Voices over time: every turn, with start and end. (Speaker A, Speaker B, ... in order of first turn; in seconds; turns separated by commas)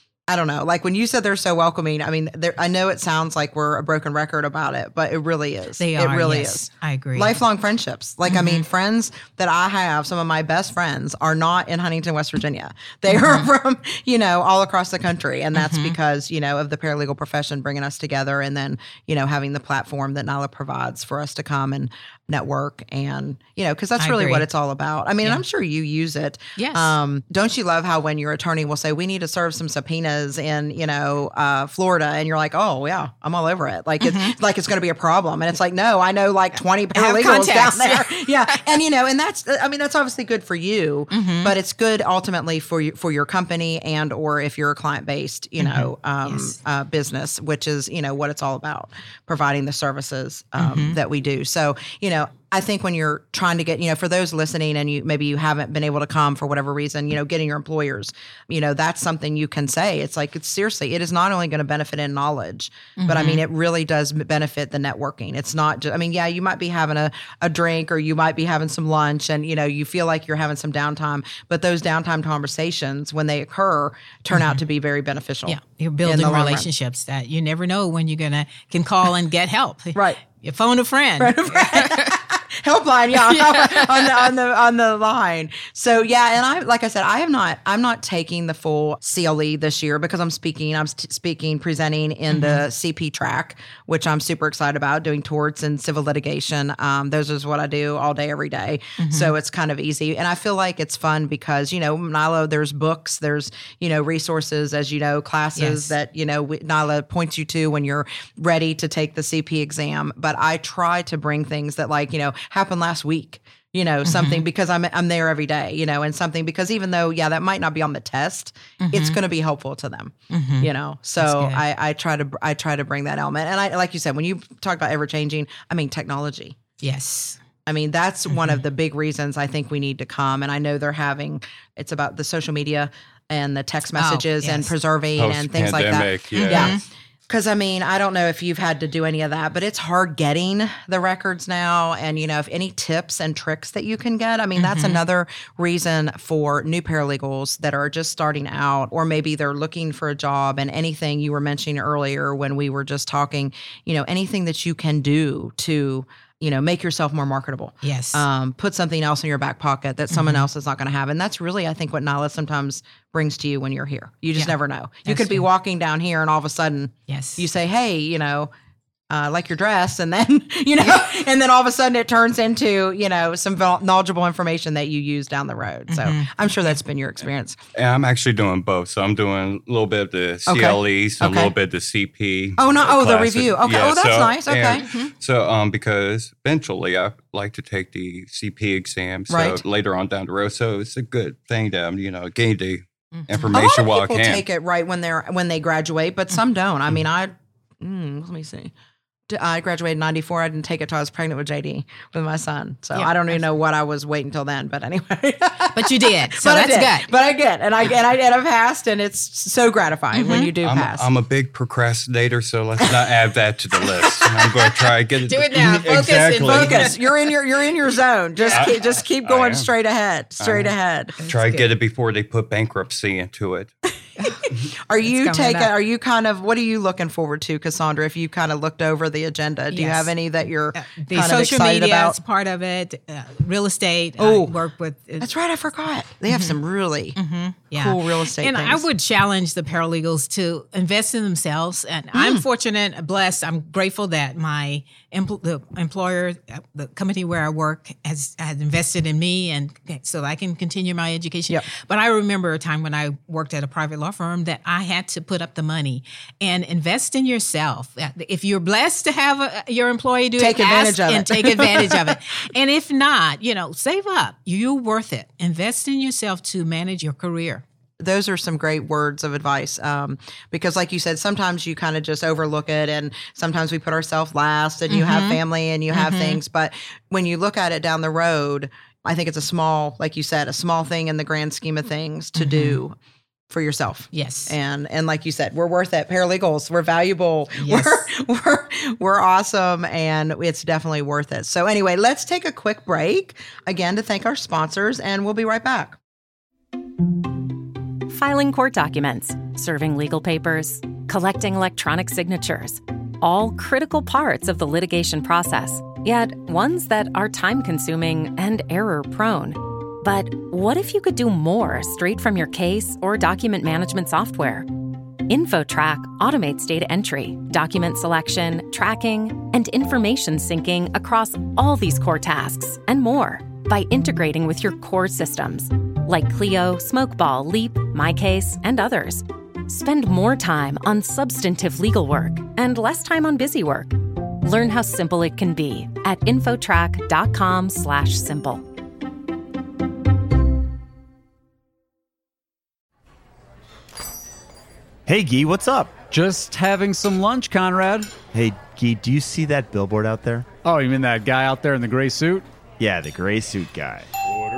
Speaker A: 0.3-76.7, Speaker B: 5.8-7.4, Speaker B: 8.3-8.7, Speaker B: 13.1-13.5, Speaker B: 15.6-16.0, Speaker B: 24.0-24.5, Speaker B: 26.6-26.9, Speaker B: 34.0-34.4, Speaker B: 36.9-38.8, Speaker B: 41.1-41.5, Speaker B: 45.6-46.6, Speaker B: 50.6-51.0, Speaker B: 63.0-63.4, Speaker B: 74.3-74.6, Speaker B: 75.5-82.1, Speaker A: 80.0-80.2, Speaker A: 81.2-126.6, Speaker B: 83.2-84.2, Speaker B: 92.3-92.7, Speaker B: 99.0-99.3, Speaker B: 105.6-105.9, Speaker B: 114.0-114.4, Speaker B: 118.8-119.2, Speaker B: 120.3-121.6, Speaker B: 126.8-127.4, Speaker A: 127.7-168.5, Speaker B: 128.3-128.6, Speaker B: 134.0-134.7, Speaker C: 135.2-136.8, Speaker B: 136.3-136.8, Speaker B: 144.6-145.0, Speaker B: 157.8-158.2, Speaker B: 160.1-160.5, Speaker B: 164.4-165.5, Speaker B: 167.1-167.4, Speaker A: 169.1-177.6, Speaker B: 175.9-176.8, Speaker C: 177.8-194.4, Speaker A: 180.5-181.5, Speaker A: 182.6-184.9, Speaker B: 184.8-185.1, Speaker A: 189.3-189.6, Speaker B: 193.1-193.4, Speaker A: 193.5-198.7, Speaker A: 199.3-211.1, Speaker B: 205.7-207.1, Speaker B: 210.1-210.5, Speaker C: 210.6-217.0, Speaker B: 215.3-216.9, Speaker A: 216.4-221.1, Speaker B: 218.4-218.8, Speaker C: 218.5-219.7, Speaker C: 220.4-220.7, Speaker B: 221.2-221.7, Speaker C: 221.3-223.7, Speaker B: 224.2-224.5, Speaker A: 224.4-232.2, Speaker B: 225.0-225.7, Speaker B: 229.7-230.1, Speaker B: 230.7-235.3, Speaker A: 234.2-234.6, Speaker A: 235.2-237.2, Speaker B: 236.3-236.6, Speaker B: 237.2-267.6, Speaker A: 237.7-238.8, Speaker A: 242.1-242.4, Speaker A: 260.4-262.0, Speaker A: 268.0-283.0, Speaker B: 274.9-275.4, Speaker B: 275.9-276.4, Speaker B: 282.4-282.8, Speaker A: 283.5-296.0, Speaker B: 284.1-284.6, Speaker B: 287.6-288.1, Speaker D: 298.1-338.6, Speaker E: 345.1-346.0, Speaker F: 346.1-348.1, Speaker E: 348.3-350.5, Speaker F: 350.6-352.5, Speaker E: 352.8-354.1